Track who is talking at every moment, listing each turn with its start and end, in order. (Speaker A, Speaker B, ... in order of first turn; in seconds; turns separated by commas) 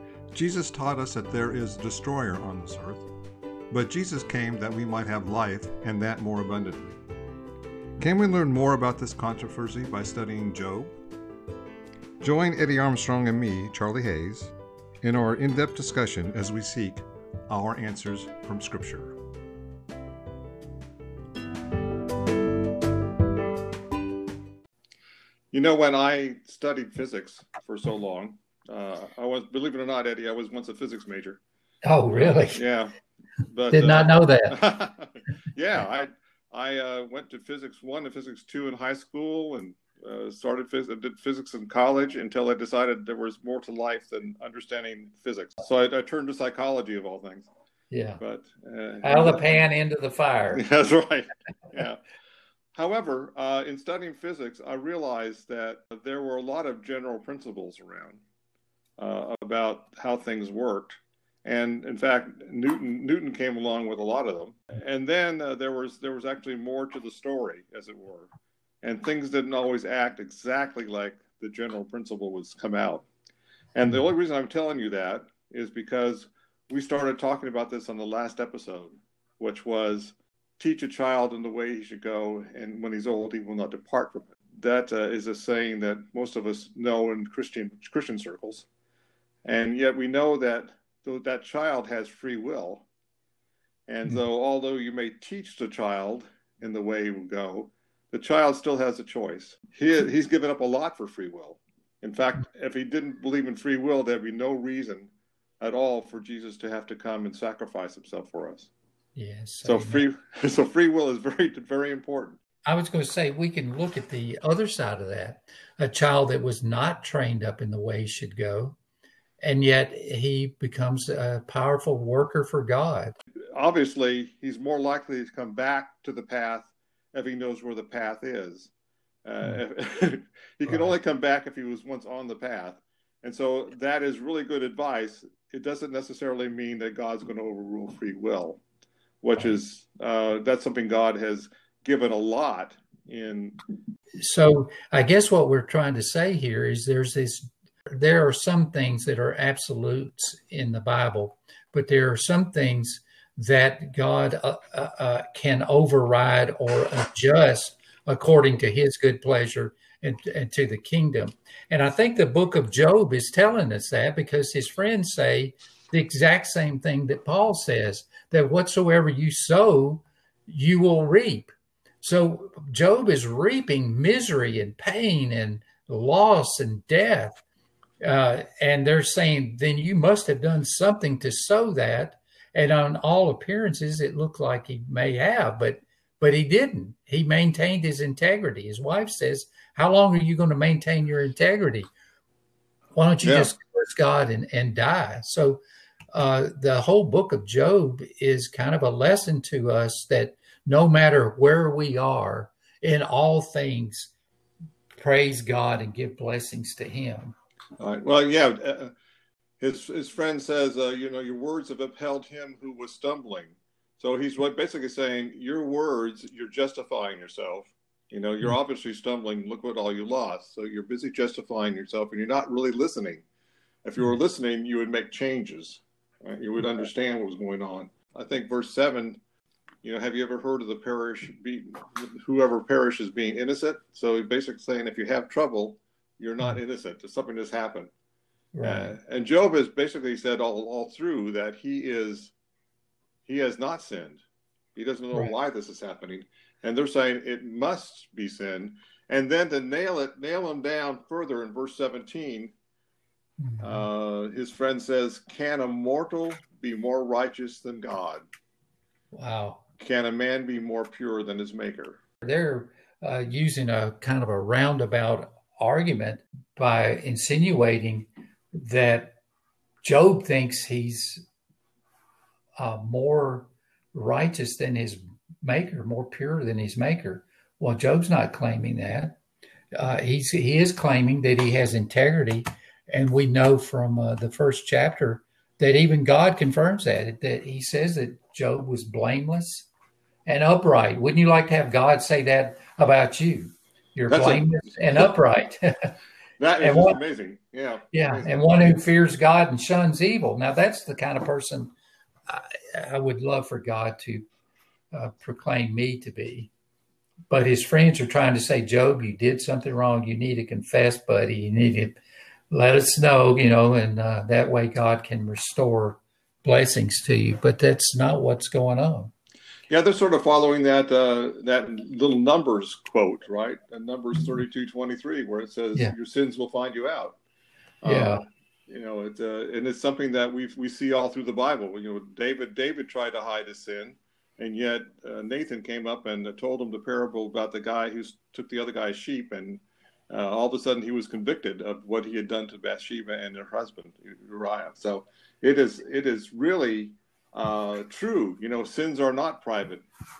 Speaker A: 0.3-3.1, Speaker A: 3.7-7.0, Speaker A: 8.0-10.9, Speaker A: 12.2-19.2, Speaker A: 25.5-31.4, Speaker B: 31.8-32.6, Speaker A: 32.5-32.9, Speaker A: 33.5-47.5, Speaker B: 33.7-34.6, Speaker B: 47.9-48.2, Speaker A: 48.2-49.6, Speaker B: 49.0-50.6, Speaker A: 50.5-52.0, Speaker A: 52.7-58.2, Speaker A: 59.0-68.3, Speaker A: 68.8-73.0, Speaker A: 73.8-88.7, Speaker A: 89.4-92.9, Speaker A: 93.9-108.7, Speaker B: 109.1-110.0, Speaker A: 109.6-112.4, Speaker B: 112.7-118.8, Speaker B: 119.4-123.2, Speaker A: 123.5-128.7, Speaker A: 129.2-138.6, Speaker B: 130.7-130.9, Speaker A: 139.2-143.6, Speaker B: 144.2-177.4, Speaker B: 178.0-191.9, Speaker B: 192.9-195.6, Speaker A: 193.2-193.5, Speaker B: 196.1-204.1, Speaker B: 205.0-207.3, Speaker A: 207.8-208.9, Speaker A: 209.6-223.2, Speaker A: 223.8-229.2, Speaker A: 229.8-237.9, Speaker B: 238.5-238.9, Speaker A: 238.6-242.3, Speaker A: 243.2-244.2, Speaker A: 244.7-252.5, Speaker B: 253.4-253.8, Speaker A: 253.6-258.2, Speaker B: 259.1-259.6, Speaker A: 259.8-262.0, Speaker B: 262.2-269.1, Speaker B: 269.8-271.2, Speaker B: 272.6-279.2, Speaker B: 279.8-289.7, Speaker B: 290.2-295.9, Speaker A: 294.1-295.1, Speaker A: 296.4-298.8, Speaker B: 296.6-297.0, Speaker B: 297.9-301.7, Speaker B: 302.3-304.2, Speaker B: 304.9-306.5, Speaker B: 307.3-312.0, Speaker B: 312.5-319.1, Speaker A: 319.7-327.2, Speaker A: 327.8-349.8, Speaker B: 327.8-328.2